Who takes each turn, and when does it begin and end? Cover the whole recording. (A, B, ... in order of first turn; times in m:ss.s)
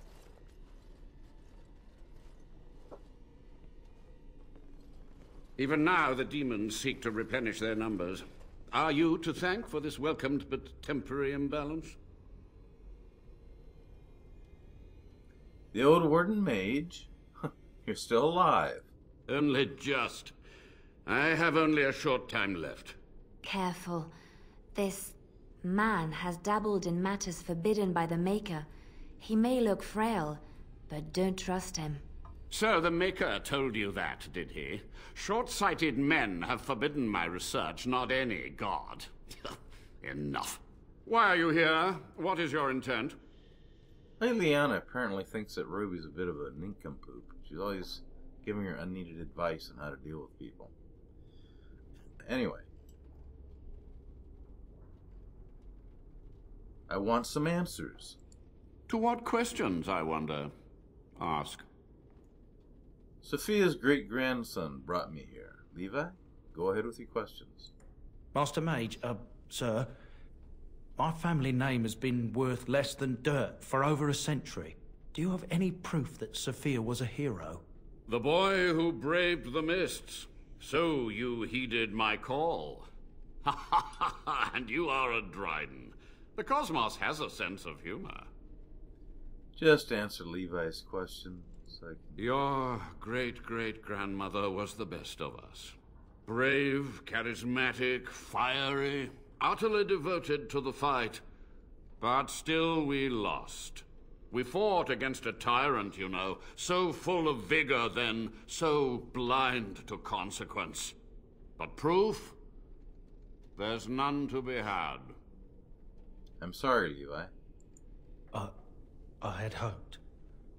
0:05.6-0:12.0 A
0:15.7-0:18.9 B
0:19.3-0:20.3 A
0:21.0-0:23.0 A
0:23.4-0:24.1 C
0:24.7-0:32.0 C
0:32.5-0:43.2 A
0:44.2-0:50.7 B
0:52.2-0:52.7 B
0:56.9-0:58.2 B
0:58.9-1:00.5 A
1:01.2-1:01.7 A
1:03.2-1:07.7 B
1:08.3-1:09.9 D
1:11.0-1:17.6 D
1:18.1-1:22.9 A
1:23.4-1:28.3 A
1:29.6-1:32.1 B
1:32.2-1:41.2 A
1:42.0-1:51.0 A
1:51.6-1:52.4 A
1:53.6-1:55.2 A
1:56.4-1:57.3 B
1:59.2-2:00.0 D